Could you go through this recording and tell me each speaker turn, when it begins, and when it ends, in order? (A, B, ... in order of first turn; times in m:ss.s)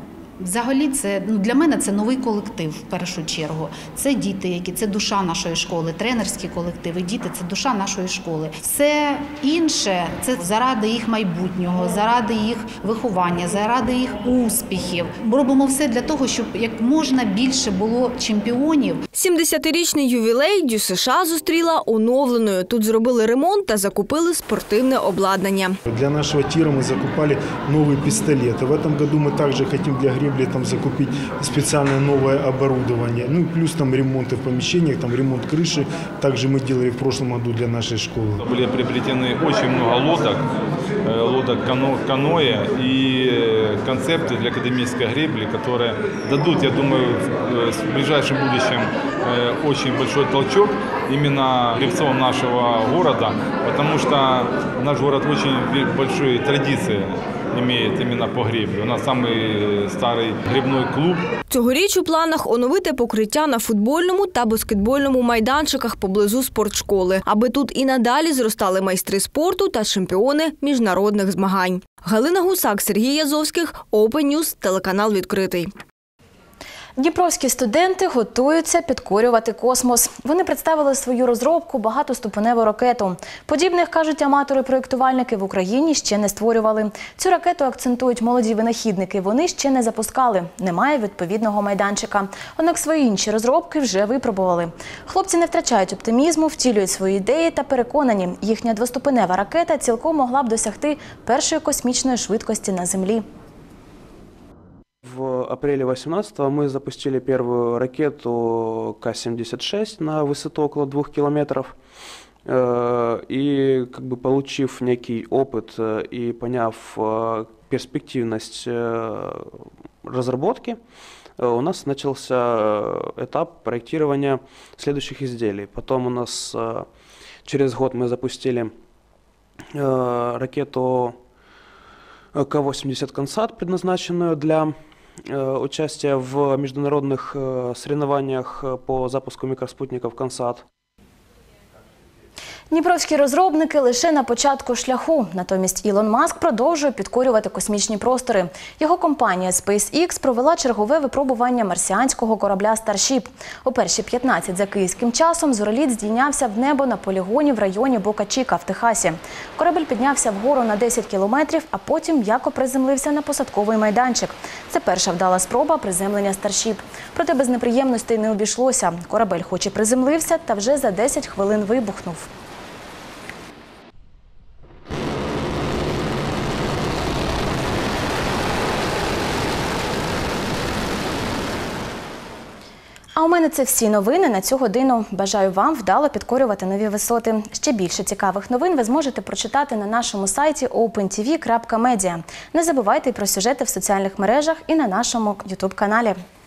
0:00.4-0:19.0 A
0:19.1-0:25.8 B
0:25.9-0:38.4 C
0:38.4-0:40.4 D
0:41.0-1:01.3 D
1:01.5-1:15.7 B
1:17.0-1:43.2 E
1:45.0-1:51.7 F
1:52.4-1:59.5 F
2:00.0-2:00.8 F
2:01.4-2:06.9 F
2:07.4-2:08.7 F
2:09.7-2:11.2 F
2:12.3-2:14.7 F
2:15.3-2:20.6 F
2:22.7-2:52.3 E
3:03.2-3:16.1 E